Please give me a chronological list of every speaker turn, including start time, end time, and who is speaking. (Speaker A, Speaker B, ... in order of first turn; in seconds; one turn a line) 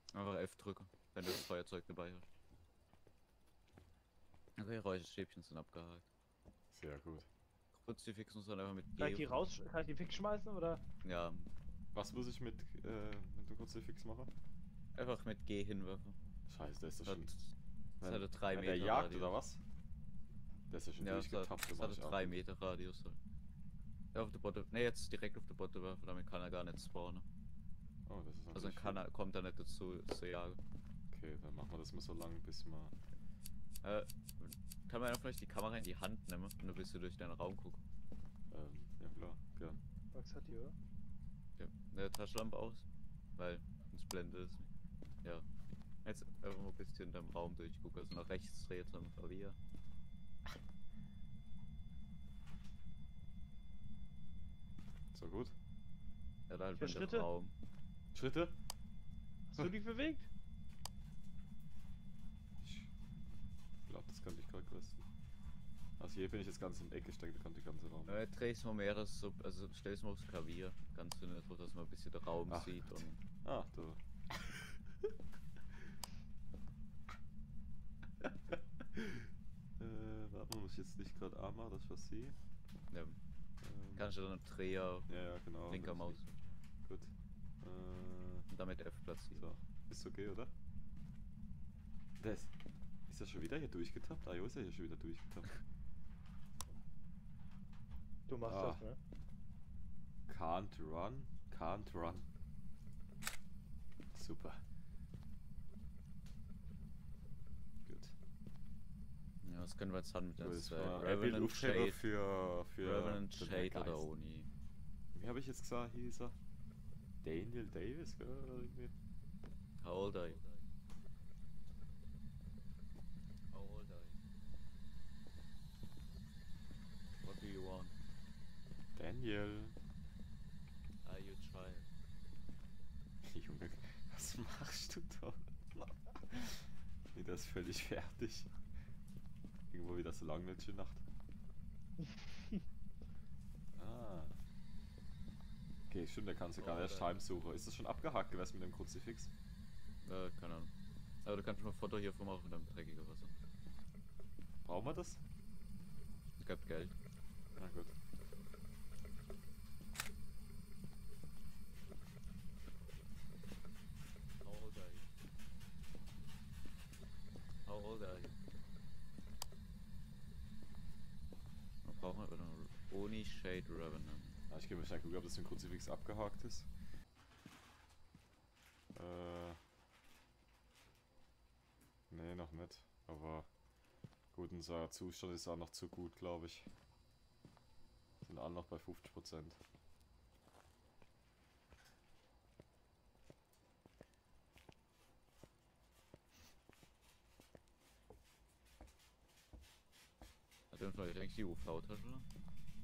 Speaker A: 0.1-2.3
Speaker A: 4.6-6.0
Speaker B: 6.7-7.3
Speaker A: 7.8-9.4
Speaker C: 9.0-10.8
Speaker A: 11.0-11.5
Speaker B: 11.9-14.3
Speaker A: 14.9-16.2
Speaker B: 16.5-17.3
Speaker A: 17.1-19.4
Speaker B: 18.0-19.6
Speaker B: 20.7-22.4
Speaker A: 21.0-23.2
Speaker A: 24.1-27.3
Speaker B: 28.1-29.0
Speaker A: 28.5-30.6
Speaker B: 31.1-32.9
Speaker A: 33.8-37.8
Speaker B: 38.5-39.8
Speaker C: 40.1-40.8
Speaker A: 41.6-42.9
Speaker A: 43.4-44.7
Speaker A: 46.0-49.6
Speaker B: 55.1-55.5
Speaker A: 56.5-57.5
Speaker C: 56.8-57.3
Speaker B: 58.1-58.5
Speaker C: 59.5-60.3
Speaker B: 62.6-63.1
Speaker B: 63.9-65.0
Speaker B: 66.0-68.2
Speaker A: 68.1-73.2
Speaker B: 72.5-74.7
Speaker B: 78.5-82.4
Speaker A: 82.9-83.2
Speaker B: 83.6-84.1
Speaker A: 84.0-86.4
Speaker B: 85.1-86.2
Speaker B: 86.8-88.5
Speaker A: 88.5-89.5
Speaker B: 89.4-90.5
Speaker B: 92.2-92.5
Speaker B: 93.1-95.6
Speaker C: 98.3-99.0
Speaker B: 98.5-98.8
Speaker B: 100.3-102.3
Speaker B: 104.1-104.6
Speaker B: 107.9-108.1
Speaker A: 109.4-112.0
Speaker B: 110.4-114.0
Speaker A: 112.8-114.5
Speaker B: 115.1-116.4
Speaker B: 117.2-118.9
Speaker A: 119.8-120.4
Speaker A: 123.5-124.2
Speaker A: 127.2-128.0
Speaker B: 129.0-129.8
Speaker A: 131.0-131.9
Speaker B: 133.2-138.5
Speaker B: 139.7-141.0
Speaker B: 143.8-144.4
Speaker B: 145.9-149.3
Speaker A: 146.6-147.2
Speaker A: 150.0-150.7
Speaker A: 151.2-153.3
Speaker B: 154.7-155.2
Speaker A: 156.4-156.9
Speaker B: 157.6-157.9
Speaker A: 164.4-165.1
Speaker A: 167.7-168.3
Speaker A: 171.8-174.4
Speaker B: 174.5-176.7
Speaker B: 178.9-179.6
Speaker B: 182.1-183.5
Speaker B: 184.3-186.7
Speaker B: 188.2-189.6
Speaker A: 200.7-202.3